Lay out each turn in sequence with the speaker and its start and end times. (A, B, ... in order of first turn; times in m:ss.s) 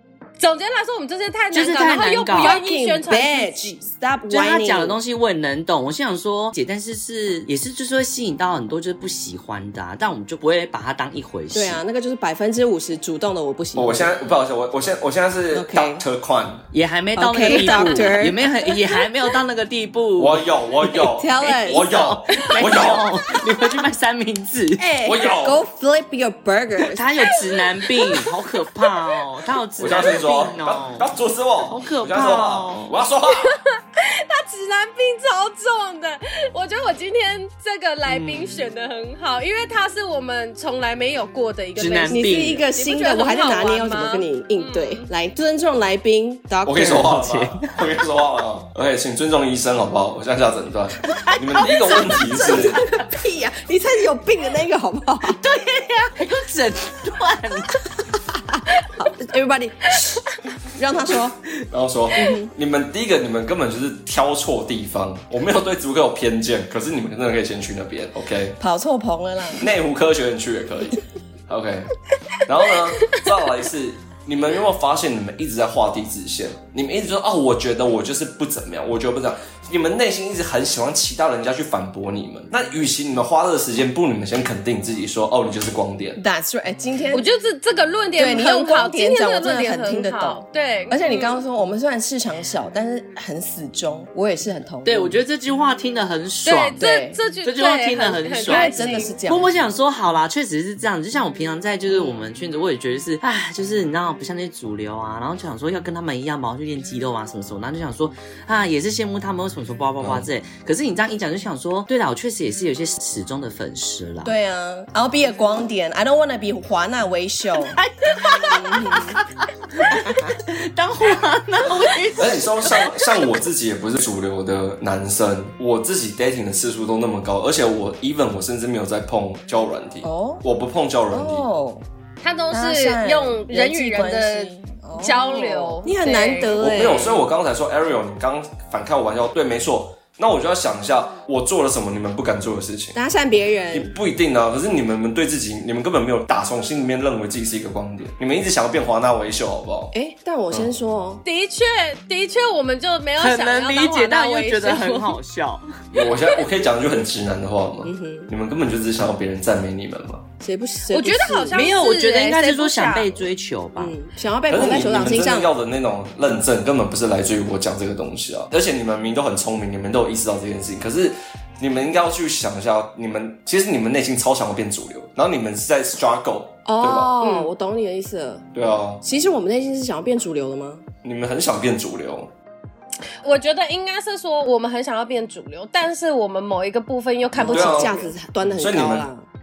0:00.4-0:03.8 A
0:01.5-0:02.6 B
0:02.3-0:05.0 C
0:04.3-0:11.8 B
0:11.5-0:14.1 C
0:13.8-0:16.6 D
0:15.5-0:16.0 C
0:16.7-0:20.4 B
0:17.2-0:18.4 C
0:17.5-0:17.9 A
0:20.2-0:23.1 D
0:20.9-0:22.2 C
0:21.7-0:24.9 B
0:24.8-0:27.0 C
0:25.0-0:25.6 D
0:26.8-0:31.0 B
0:27.5-0:28.3 A
0:29.8-0:33.6 D
0:31.6-0:33.0 B
0:33.3-0:45.1 A
0:38.1-0:38.7 B
0:41.8-0:42.6 B
0:42.1-0:47.1 C
0:46.6-0:52.8 D
0:46.7-0:47.8 B
0:51.1-0:53.0 B
0:52.0-0:55.4 C
0:55.2-0:57.8 B
0:58.5-1:00.2 C
1:00.7-1:01.4 C
1:01.7-1:08.6 D
1:02.1-1:02.5 C
1:08.6-1:09.6 C
1:09.6-1:11.9 D
1:12.5-1:26.2 D
1:26.2-1:27.3 C
1:27.1-1:31.4 A
1:28.2-1:35.2 C
1:34.8-1:54.3 B
1:36.4-1:39.1 A
1:36.8-1:37.2 C
1:38.4-1:39.5 C
1:41.9-1:42.2 C
1:50.0-1:50.3 D
1:54.2-1:57.8 C
1:57.6-2:03.0 B
1:58.4-1:59.2 C
2:00.0-2:00.3 C
2:02.2-2:11.4 D
2:10.0-2:10.4 C
2:11.1-2:11.8 C
2:12.2-2:16.8 A
2:12.5-2:17.2 C
2:16.6-2:23.0 D
2:22.9-2:23.9 C
2:23.7-2:29.9 D
2:29.9-2:31.2 C
2:31.2-2:35.2 A
2:33.2-2:35.8 B
2:35.9-2:40.2 D
2:37.8-2:38.3 C
2:40.4-2:41.6 C
2:40.9-2:43.2 A
2:41.5-2:43.9 B
2:43.8-2:45.5 C
2:44.5-2:57.1 D
2:56.6-2:58.4 C
2:57.2-2:57.5 A
2:58.5-2:59.0 D
2:59.0-3:00.8 C
3:01.0-3:02.3 D
3:03.2-3:08.1 A
3:07.3-3:09.2 C
3:07.5-3:07.9 D
3:08.4-3:09.1 D